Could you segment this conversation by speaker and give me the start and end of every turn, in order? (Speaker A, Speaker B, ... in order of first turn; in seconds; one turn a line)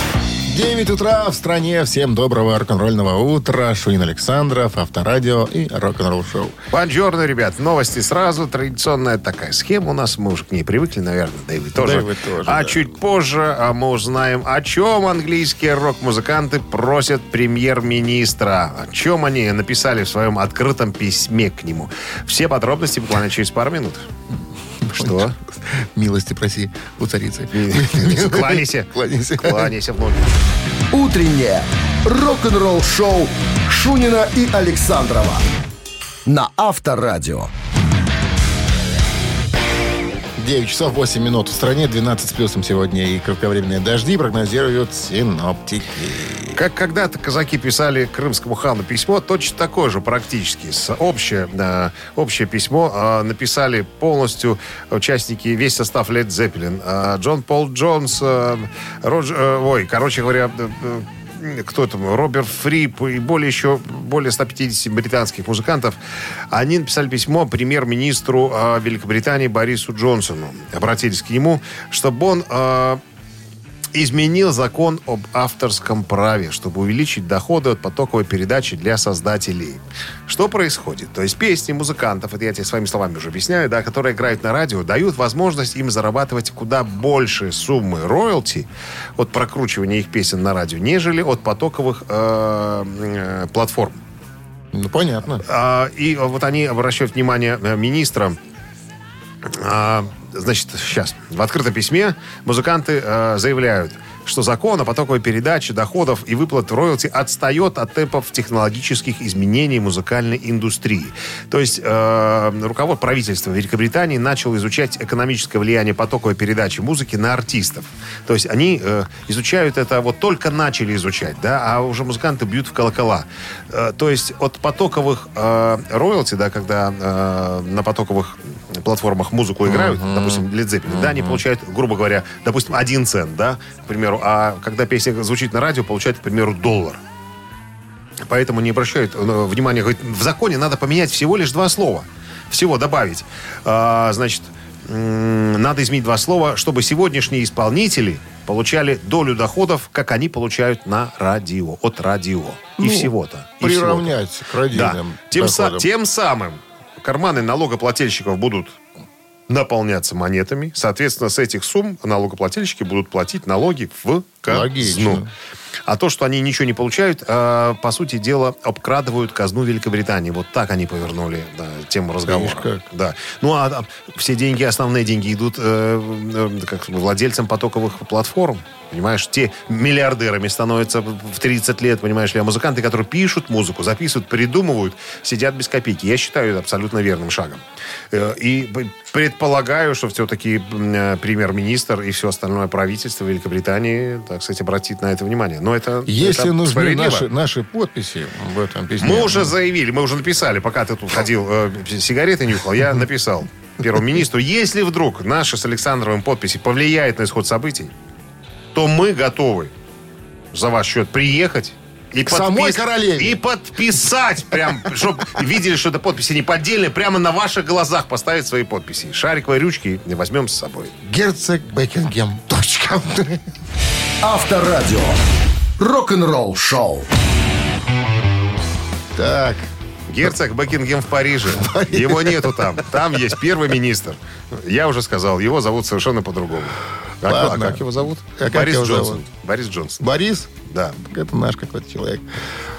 Speaker A: 0.5-6.5
Speaker B: 6.7-24.1
Speaker A: 11.7-12.8
Speaker A: 24.8-29.7
Speaker B: 24.9-25.4
Speaker B: 27.5-30.3
Speaker C: 30.9-35.4
Speaker C: 36.2-37.5
Speaker A: 40.4-46.6
Speaker B: 46.5-66.0
Speaker B: 66.5-73.0
Speaker B: 73.9-94.0
Speaker A: 94.7-95.4
Speaker B: 95.4-98.4
Speaker B: 99.4-137.0
Speaker A: 129.6-131.4
Speaker B: 138.2-154.1
Speaker A: 152.8-155.9
Speaker B: 154.7-158.8
Speaker B: 159.5-165.2
Speaker A: 164.4-165.3
Speaker B: 165.9-197.3
Speaker A: 172.2-172.8
Speaker A: 196.1-199.5
Speaker B: 199.0-207.9
Speaker B: 208.7-209.7
Speaker B: 210.5-220.9
Speaker A: 212.2-213.4
Speaker A: 221.0-223.4
Speaker C: 224.2-225.2
Speaker C: 225.8-227.1
Speaker A: 229.1-229.7
Speaker B: 230.1-240.1
Speaker A: 231.5-232.8
Speaker A: 237.2-237.8
Speaker A: 238.4-239.2
Speaker A: 240.0-242.2
Speaker B: 240.7-241.0